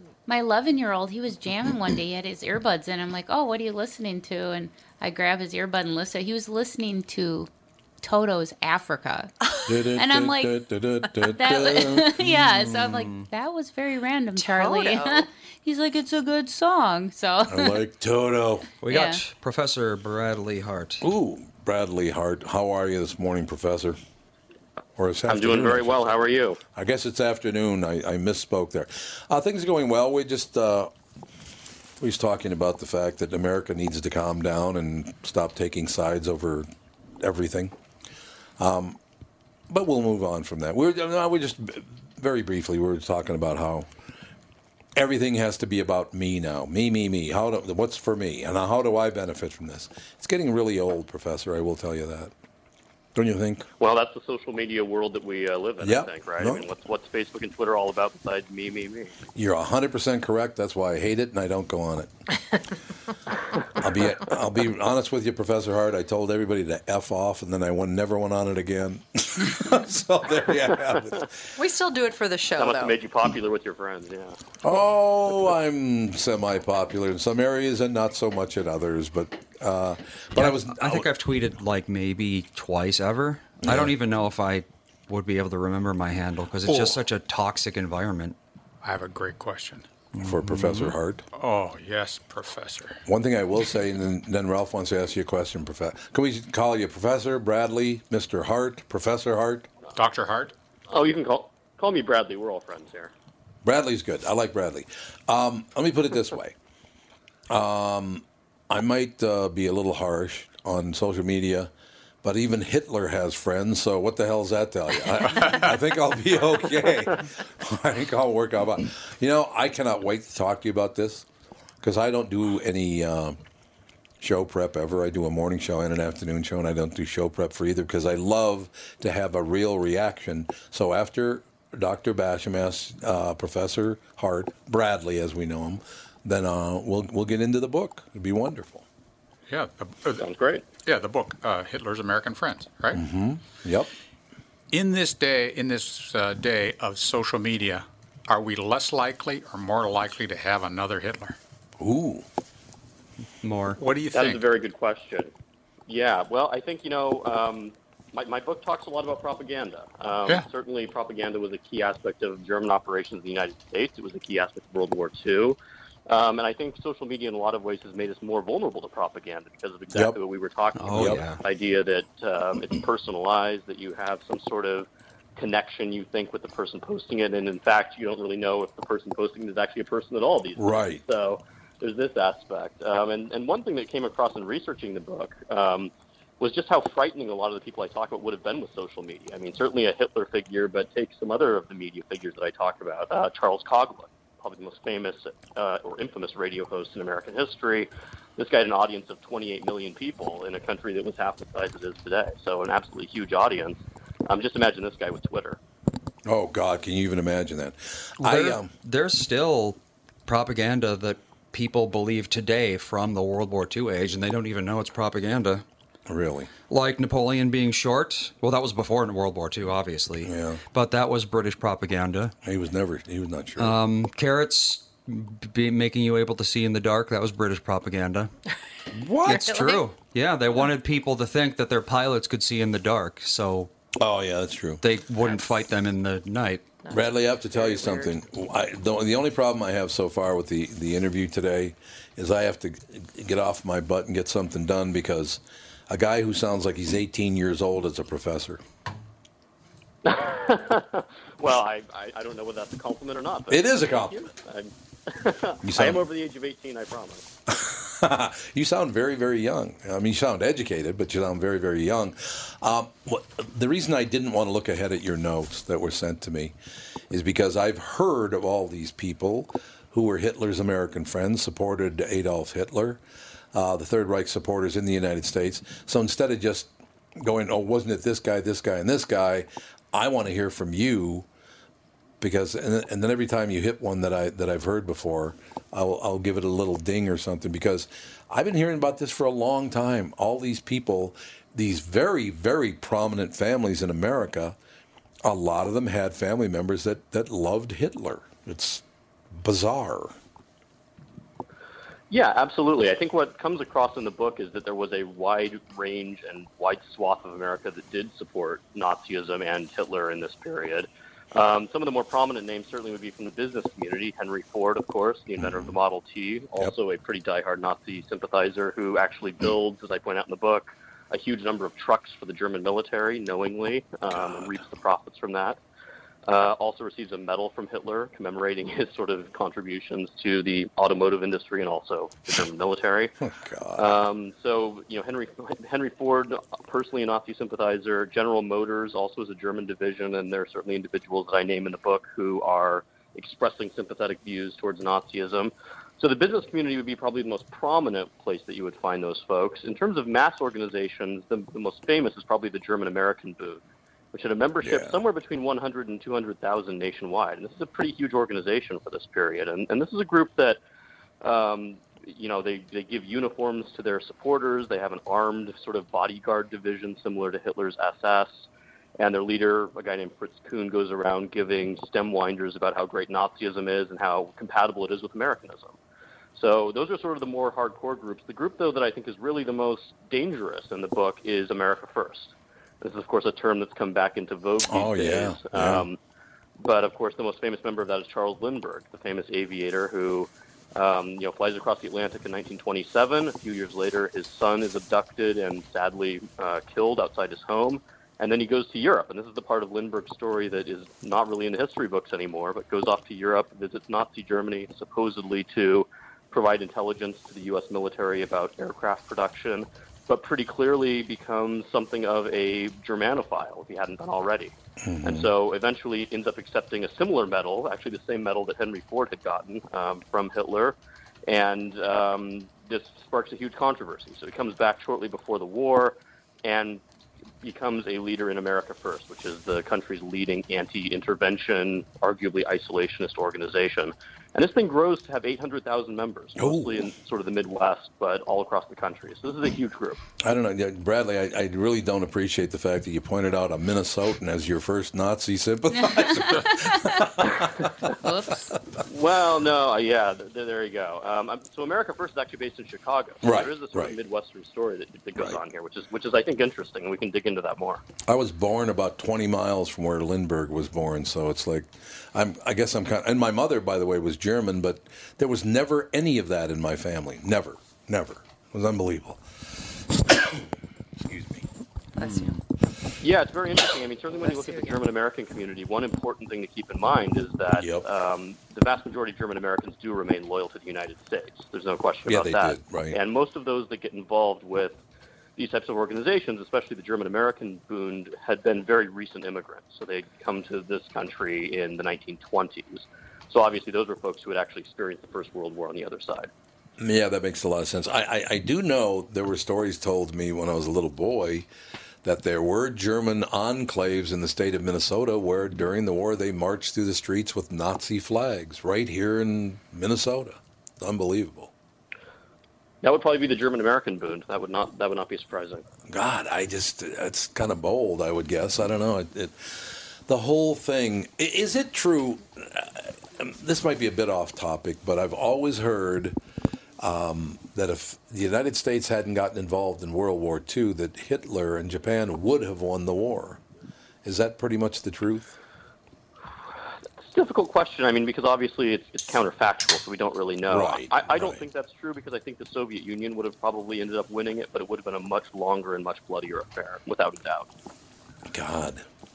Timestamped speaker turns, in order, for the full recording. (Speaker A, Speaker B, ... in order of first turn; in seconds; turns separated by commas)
Speaker A: 0.3-7.5, Speaker A: 8.0-9.3, Speaker B: 9.7-12.1, Speaker A: 10.0-10.6, Speaker A: 11.2-17.8, Speaker C: 12.3-13.3, Speaker D: 14.4-15.3, Speaker B: 17.5-18.7, Speaker C: 18.8-21.0, Speaker A: 18.9-19.2, Speaker B: 21.0-24.0, Speaker B: 25.0-26.1, Speaker E: 25.3-26.6, Speaker B: 26.8-30.9, Speaker B: 32.0-36.7, Speaker B: 37.2-37.8, Speaker B: 38.6-39.0, Speaker B: 39.7-43.9, Speaker B: 45.0-52.3, Speaker B: 53.1-53.7, Speaker E: 53.8-59.1, Speaker B: 55.8-56.7, Speaker B: 59.4-62.1, Speaker B: 63.8-71.3, Speaker D: 71.6-73.0, Speaker E: 72.6-74.4, Speaker B: 74.6-81.1, Speaker C: 80.3-88.4, Speaker B: 83.6-83.9, Speaker F: 86.6-87.0, Speaker F: 88.8-89.9, Speaker C: 90.2-90.9, Speaker B: 90.2-91.2, Speaker F: 91.3-93.0, Speaker B: 93.1-99.7, Speaker F: 100.0-100.5, Speaker E: 100.9-103.1, Speaker B: 103.6-106.6, Speaker B: 107.5-111.7, Speaker B: 112.2-121.3, Speaker F: 115.3-115.8, Speaker B: 121.8-123.4, Speaker B: 124.2-138.9, Speaker F: 139.5-140.3, Speaker E: 140.2-140.7, Speaker F: 140.8-143.0, Speaker B: 142.9-143.9, Speaker F: 144.7-151.4, Speaker B: 151.8-152.3, Speaker C: 153.4-153.8, Speaker F: 153.8-154.5, Speaker E: 154.1-155.3, Speaker E: 155.9-165.6, Speaker E: 166.1-205.6, Speaker C: 170.8-171.4, Speaker B: 170.9-171.2, Speaker B: 180.6-181.0, Speaker B: 206.3-208.7, Speaker C: 208.2-215.6, Speaker B: 216.1-216.5, Speaker C: 216.7-222.3, Speaker B: 220.2-220.6, Speaker B: 222.4-223.8, Speaker C: 223.6-228.3, Speaker B: 229.0-229.6, Speaker C: 229.2-233.7, Speaker D: 229.3-229.8, Speaker B: 234.0-234.8, Speaker C: 234.8-236.7, Speaker D: 236.8-238.2, Speaker B: 236.9-248.6, Speaker E: 250.1-257.3, Speaker B: 253.5-254.3, Speaker B: 255.6-256.1, Speaker B: 257.5-266.6, Speaker B: 267.1-273.0, Speaker B: 273.5-281.3, Speaker B: 282.2-294.6, Speaker B: 295.2-300.2, Speaker E: 302.1-325.6, Speaker B: 315.4-315.7, Speaker B: 324.2-324.5, Speaker E: 326.3-333.1, Speaker B: 333.2-333.9, Speaker E: 333.8-353.6, Speaker E: 354.1-360.6, Speaker B: 354.6-355.0, Speaker E: 361.2-368.5, Speaker E: 369.0-375.8, Speaker E: 376.4-386.0, Speaker B: 384.7-385.9, Speaker E: 386.6-420.8, Speaker B: 414.8-415.3, Speaker E: 421.3-426.8, Speaker E: 427.4-440.0, Speaker B: 436.4-436.9, Speaker B: 440.2-447.7, Speaker A: 445.7-447.1, Speaker A: 448.0-448.5, Speaker E: 448.9-457.8, Speaker B: 453.2-454.0, Speaker B: 458.1-470.4, Speaker B: 471.1-471.5, Speaker D: 472.0-472.4, Speaker C: 472.0-472.4, Speaker E: 473.0-484.8, Speaker D: 474.2-474.8, Speaker B: 477.5-477.8, Speaker B: 482.1-483.0, Speaker E: 485.4-496.3, Speaker B: 496.8-501.5, Speaker B: 502.0-511.5, Speaker E: 512.8-515.6, Speaker B: 515.9-526.2, Speaker B: 526.8-533.4, Speaker B: 534.0-535.4, Speaker E: 537.0-547.5, Speaker B: 540.5-541.4, Speaker B: 548.3-548.9